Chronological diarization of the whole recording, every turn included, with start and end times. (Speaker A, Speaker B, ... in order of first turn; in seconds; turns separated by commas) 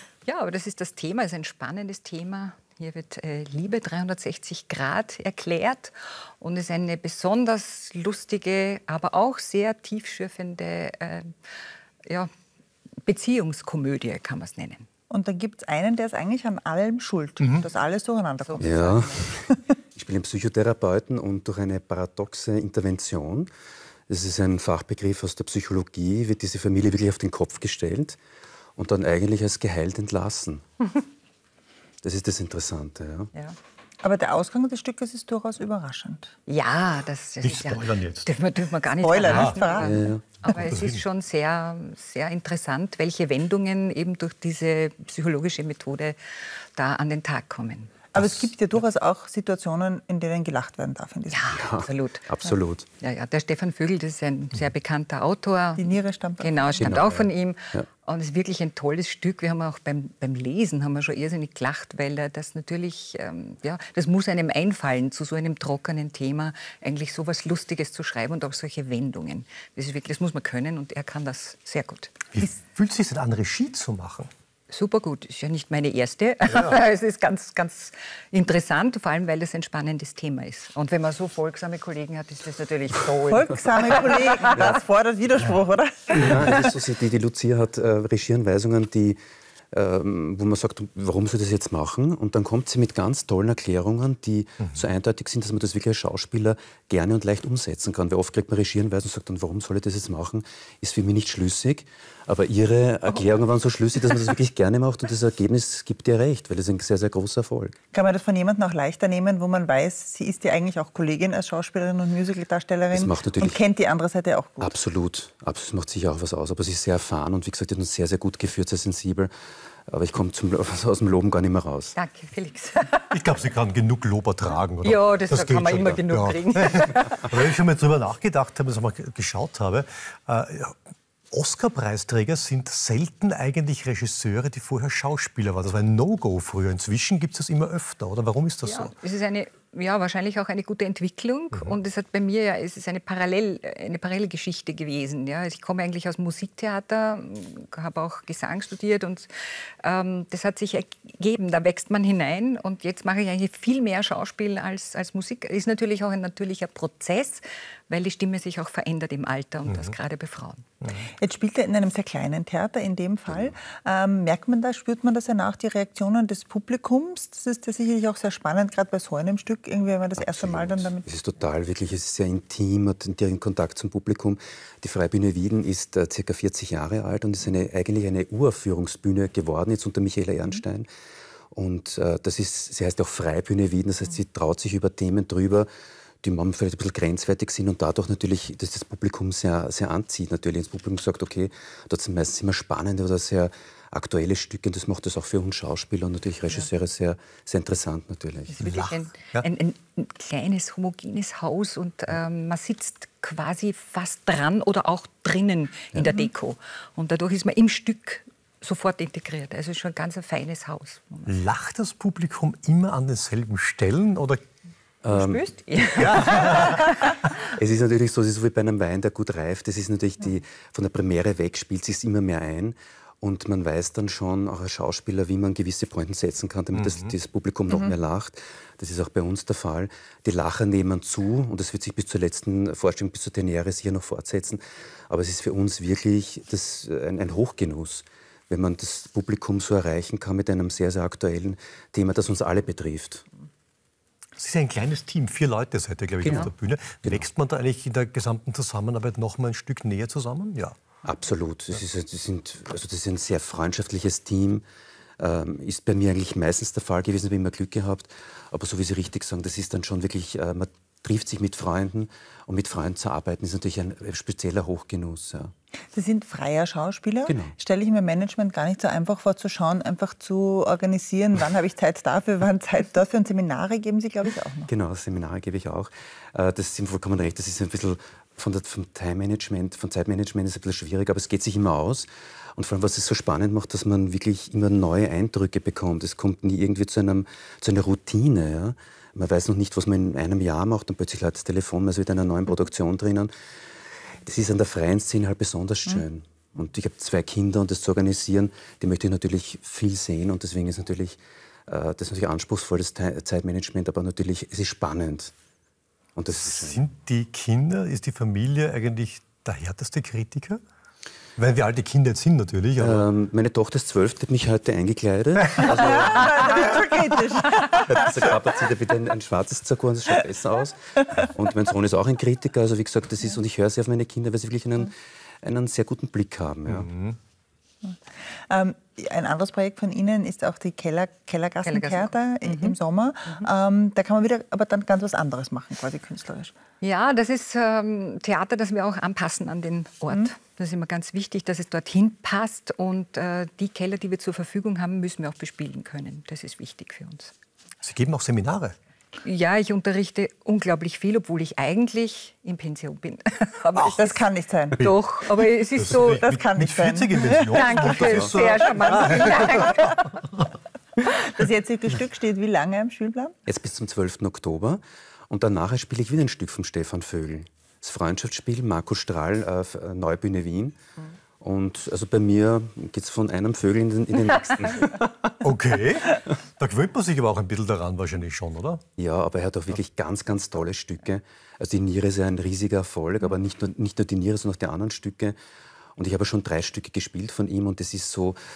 Speaker A: 0.2-11.3, Speaker A: 13.0-14.9, Speaker B: 15.1-19.7, Speaker C: 17.4-17.6, Speaker A: 18.4-18.9, Speaker D: 18.6-23.5, Speaker D: 24.1-28.2, Speaker D: 28.8-30.6, Speaker D: 32.0-33.3, Speaker B: 34.0-36.3, Speaker A: 36.5-46.2, Speaker C: 37.4-38.3, Speaker B: 39.0-40.0, Speaker C: 39.2-39.6, Speaker D: 39.8-40.2, Speaker C: 40.4-41.0, Speaker A: 46.7-48.1, Speaker B: 48.1-51.7, Speaker A: 51.3-52.3, Speaker D: 51.5-52.9, Speaker A: 53.0-55.9, Speaker B: 55.8-56.8, Speaker A: 56.4-72.4, Speaker D: 56.8-57.8, Speaker C: 72.3-74.3, Speaker A: 74.7-84.8, Speaker B: 83.3-86.7, Speaker D: 86.1-89.2, Speaker D: 89.7-107.8, Speaker B: 107.9-114.7, Speaker D: 112.9-113.6, Speaker D: 114.6-119.3, Speaker D: 119.9-122.0, Speaker A: 121.9-123.2, Speaker C: 123.1-130.8, Speaker A: 124.8-127.3, Speaker C: 131.3-138.9, Speaker A: 138.6-160.7, Speaker C: 159.7-159.9, Speaker B: 161.0-171.0, Speaker D: 163.3-163.6, Speaker D: 170.2-180.9, Speaker D: 181.5-185.7, Speaker D: 186.2-198.7, Speaker A: 198.5-211.3, Speaker C: 198.6-199.5, Speaker C: 211.3-214.4, Speaker D: 215.0-215.4, Speaker A: 215.1-217.2, Speaker C: 216.0-216.8, Speaker D: 216.0-216.7, Speaker D: 217.4-243.2, Speaker C: 226.7-227.1, Speaker C: 244.4-250.8, Speaker D: 246.2-246.5, Speaker D: 251.0-254.6, Speaker D: 255.2-265.5, Speaker B: 265.9-274.7, Speaker D: 267.2-267.5, Speaker D: 274.7-293.3, Speaker D: 294.2-305.3, Speaker D: 306.1-306.9, Speaker C: 306.3-310.6, Speaker C: 311.4-313.1, Speaker D: 312.8-316.7, Speaker B: 315.5-318.2, Speaker D: 317.9-326.9, Speaker C: 326.7-327.2, Speaker B: 327.8-336.5, Speaker A: 331.6-333.5, Speaker A: 336.8-347.3, Speaker C: 347.8-348.7, Speaker A: 349.2-356.2, Speaker B: 353.8-354.8, Speaker C: 354.8-360.1, Speaker B: 355.9-357.8, Speaker A: 357.5-360.2, Speaker D: 357.9-358.4, Speaker B: 361.0-363.3, Speaker D: 363.4-370.8, Speaker D: 371.4-375.1, Speaker A: 374.6-374.9, Speaker C: 375.4-378.8, Speaker D: 379.0-385.4, Speaker D: 385.9-388.4